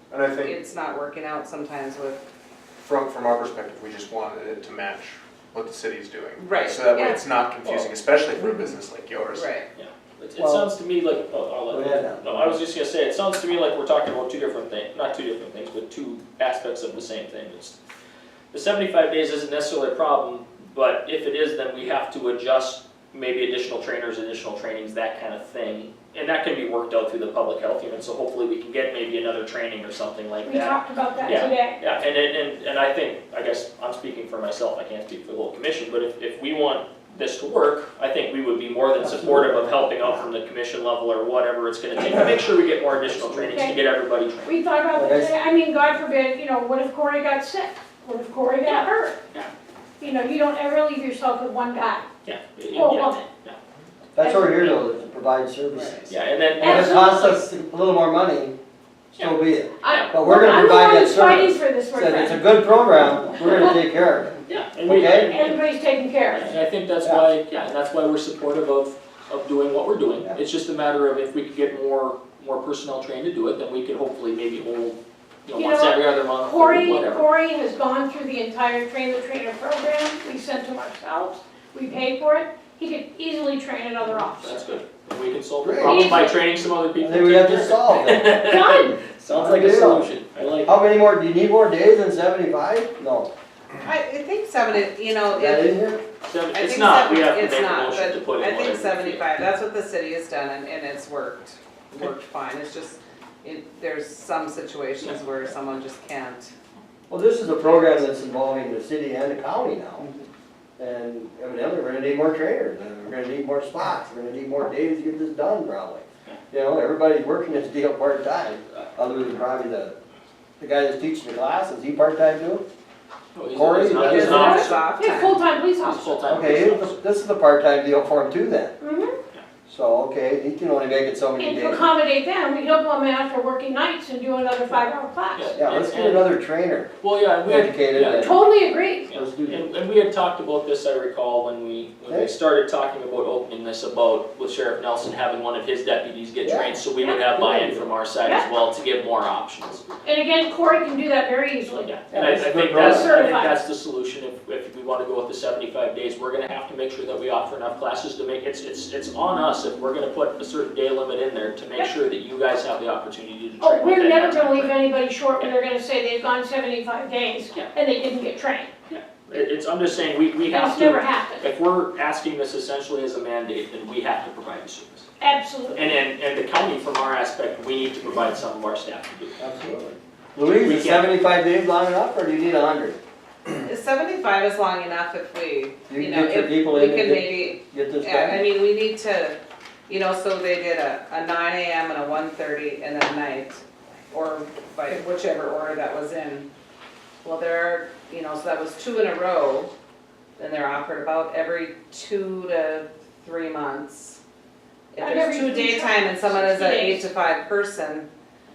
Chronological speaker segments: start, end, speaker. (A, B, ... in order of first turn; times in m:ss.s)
0:00.1-0:00.6 A
0:00.4-0:02.2 B
0:02.8-0:09.5 A
0:06.4-0:07.2 B
0:09.3-0:09.6 B
0:09.7-0:17.8 C
0:10.4-0:10.7 D
0:11.7-0:12.6 D
0:18.5-0:44.5 C
0:30.4-0:31.8 E
0:39.0-0:39.8 D
0:43.2-0:43.5 D
0:43.5-0:43.8 E
0:44.4-0:49.2 E
0:44.9-0:45.3 D
0:48.6-0:49.5 C
0:50.0-0:52.1 E
0:52.2-0:53.6 C
0:52.7-0:53.3 E
0:54.2-0:56.0 D
0:54.2-0:54.6 E
0:55.7-0:56.1 B
0:56.1-0:57.4 C
0:56.6-0:58.5 D
0:56.6-0:57.2 E
0:59.1-1:04.3 D
0:59.2-1:00.1 C
0:59.8-1:02.4 E
1:04.5-1:05.6 C
1:04.8-1:05.3 D
1:05.3-1:06.5 E
1:06.2-1:17.3 C
1:15.5-1:24.8 E
1:24.0-1:30.8 C
1:25.6-1:26.3 D
1:25.9-1:26.4 E
1:27.0-1:28.4 D
1:28.5-1:29.0 E
1:29.3-1:30.1 D
1:30.6-1:33.3 D
1:33.8-1:35.8 B
1:35.3-1:36.0 D
1:36.2-1:39.3 C
1:36.5-1:46.5 B
1:47.1-1:50.1 D
1:47.6-1:48.0 B
1:50.8-1:59.9 D
2:00.6-2:02.6 D
2:03.3-2:04.9 C
2:03.5-2:04.7 D
2:03.9-2:05.4 B
2:04.2-2:06.2 E
2:05.8-2:07.0 C
2:06.3-2:08.7 D
2:08.8-2:09.2 E
2:09.7-2:11.8 D
2:11.4-2:15.5 E
2:14.7-2:16.3 C
2:15.6-2:16.9 D
2:17.0-2:29.8 C
2:17.4-2:18.4 D
2:18.2-2:19.1 E
2:19.1-2:19.6 D
2:22.0-2:22.3 D
2:26.4-2:26.8 D
2:27.0-2:27.2 E
2:27.3-2:27.9 D
2:30.0-2:33.6 E
2:31.7-2:44.8 C
2:32.1-2:33.1 D
2:43.6-2:48.7 E
2:48.9-2:55.0 C
2:50.5-2:51.5 E
2:55.2-2:56.0 E
2:55.7-2:59.4 C
2:59.4-3:03.0 D
3:00.6-3:01.1 C
3:03.6-3:09.4 B
3:05.9-3:08.4 D
3:09.9-3:16.5 B
3:17.2-3:19.7 B
3:20.4-3:24.2 B
3:24.9-3:28.1 B
3:25.0-3:27.1 E